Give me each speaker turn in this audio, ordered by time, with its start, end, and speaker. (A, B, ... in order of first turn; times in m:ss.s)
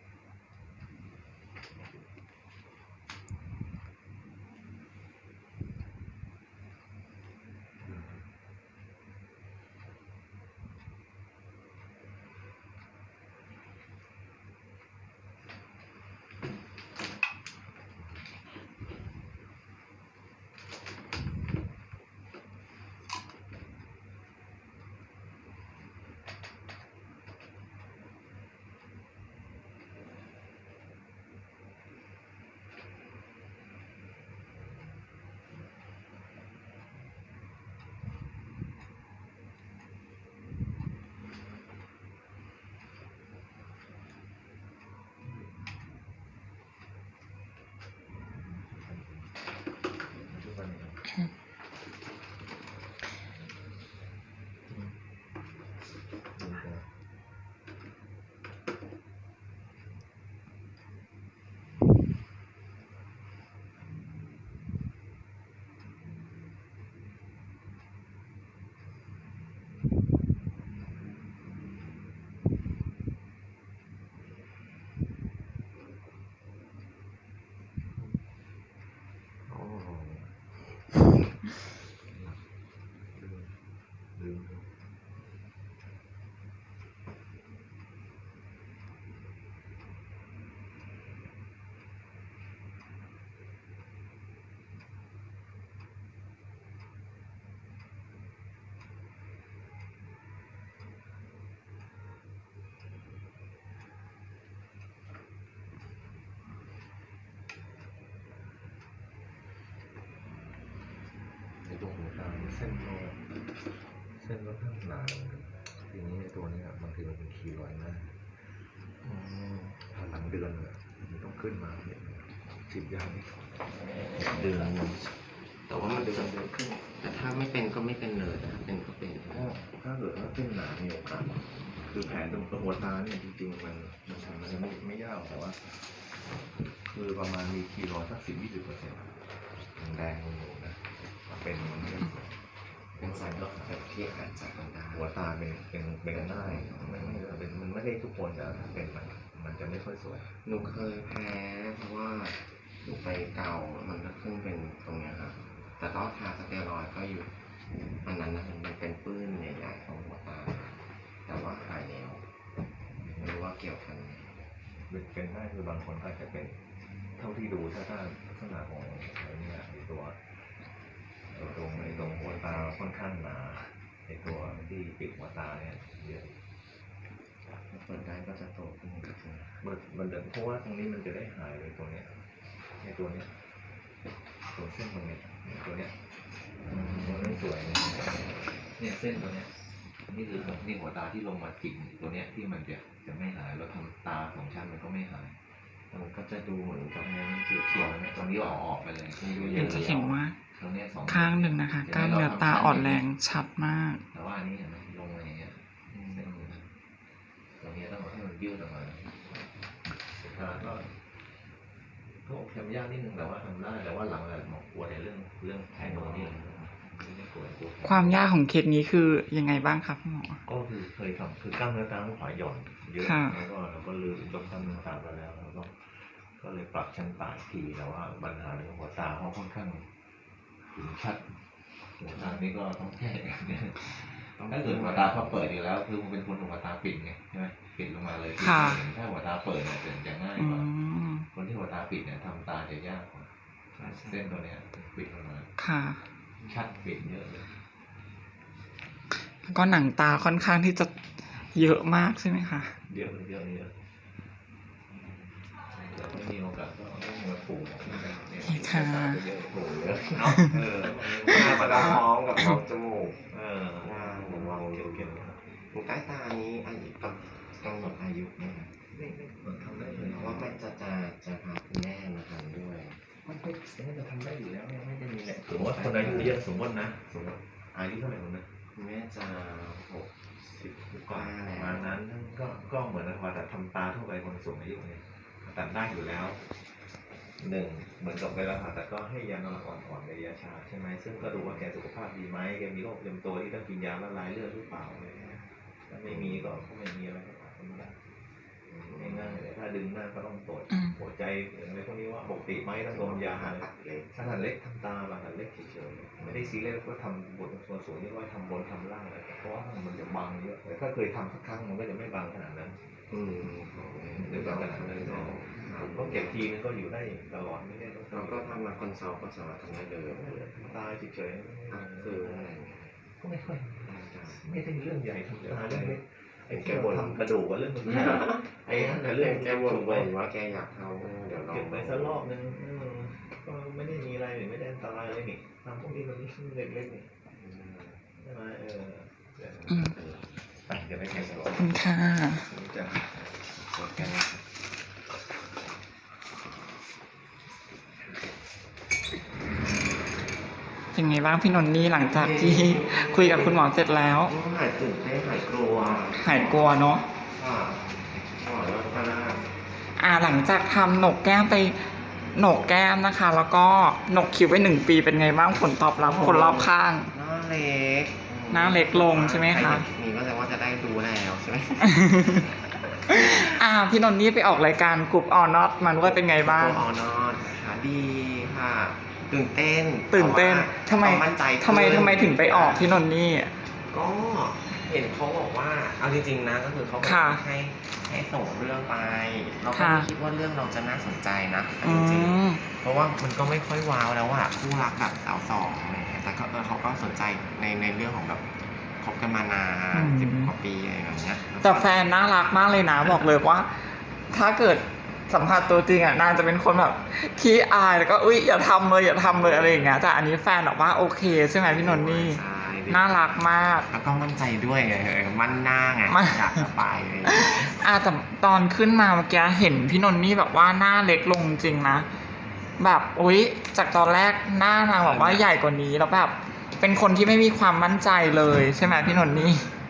0:45.2-0:45.7 A
0:48.3-0:49.3 A
0:50.3-0:51.0 A
0:54.7-0:55.0 A
0:56.4-0:56.9 A
1:19.5-1:20.6 A
1:22.1-1:22.5 A
1:23.1-1:24.8 A
1:51.6-1:53.2 A
1:54.1-1:58.2 A
1:59.0-2:05.0 A
2:04.0-2:05.1 B
2:05.7-2:09.5 B
2:05.7-2:06.8 A
2:09.3-2:15.8 A
2:12.1-2:12.4 B
2:16.9-2:19.1 A
2:19.8-2:22.4 A
2:22.9-2:23.8 A
2:23.0-2:25.1 B
2:24.9-2:30.3 A
2:26.1-2:27.3 B
2:30.4-2:37.3 B
2:38.0-2:42.2 B
2:43.0-2:43.3 A
2:43.0-2:44.3 B
2:44.9-2:46.6 A
2:47.2-2:50.2 A
2:51.3-2:56.4 A
2:51.7-2:52.8 B
2:54.3-2:54.6 B
2:57.7-2:59.6 B
2:59.6-3:02.2 A
3:02.8-3:03.4 A
3:04.5-3:06.0 A
3:06.6-3:09.5 A
3:06.7-3:07.4 B
3:10.1-3:15.4 A
3:15.9-3:20.1 B
3:17.0-3:19.9 A
3:19.5-3:20.4 C
3:20.5-3:23.0 A
3:21.1-3:24.0 C
3:24.1-3:26.7 A
3:26.0-3:26.6 B
3:27.6-3:29.5 A
3:30.2-3:30.9 A
3:32.2-3:38.2 A
3:35.8-3:36.6 B
3:37.8-3:40.4 C
3:40.5-3:49.9 A
3:43.0-3:43.4 C
3:50.6-3:51.4 A
3:51.9-4:00.7 A
3:52.1-3:52.5 B
3:54.4-3:55.4 B
3:58.4-3:58.8 C
4:00.4-4:01.2 C
4:01.3-4:05.5 A
4:03.8-4:04.2 B
4:05.6-4:06.0 C
4:06.4-4:07.5 A
4:09.4-4:10.9 C
4:11.5-4:12.8 C
4:12.9-4:13.7 A
4:14.9-4:22.1 A
4:18.4-4:19.2 C
4:20.5-4:23.2 B
4:23.3-4:25.4 A
4:23.8-4:28.7 B
4:28.9-4:30.5 A
4:29.7-4:33.0 B
4:33.2-4:38.5 A
4:35.6-4:36.4 B
4:38.8-4:40.1 B
4:40.5-4:46.4 A
4:41.0-4:42.0 B
4:47.4-4:58.0 A
4:56.1-4:56.5 B
4:58.7-4:59.4 B
4:58.9-5:12.8 A
5:02.9-5:04.4 B
5:13.1-5:16.4 B
5:14.1-5:18.8 A
5:18.1-5:20.8 B
5:20.5-5:22.5 A
5:21.7-5:22.9 B
5:23.2-5:30.1 A
5:23.8-5:24.4 B
5:25.6-5:26.0 B
5:26.5-5:27.2 B
5:27.9-5:32.3 B
5:31.3-5:37.1 A
5:37.3-5:38.1 B
5:38.2-5:39.9 A
5:39.7-5:40.3 B
5:39.7-5:40.0 C
5:40.6-5:41.7 A
5:41.1-5:41.7 B
5:41.5-5:42.4 C
5:42.3-5:43.2 A
5:43.4-5:44.5 B
5:50.9-5:54.3 C
5:52.0-5:53.7 B
5:54.2-5:59.5 B
5:56.1-5:57.0 C
6:00.0-6:01.8 C
6:02.3-6:07.1 C
6:05.9-6:13.4 B
6:08.5-6:09.9 C
6:11.9-6:12.5 C
6:13.1-6:16.8 C
6:15.9-6:23.0 B
6:20.1-6:23.5 C
6:23.8-6:42.1 B
6:27.0-6:27.4 C
6:29.7-6:30.1 C
6:31.8-6:32.6 C
6:39.9-6:40.5 C
6:41.6-6:53.9 C
6:49.2-6:50.0 B
6:51.5-6:53.2 B
6:53.9-6:57.8 B
6:56.1-6:56.7 C
6:57.2-7:02.1 C
7:02.8-7:09.7 C
7:05.1-7:05.4 A
7:08.8-7:09.5 B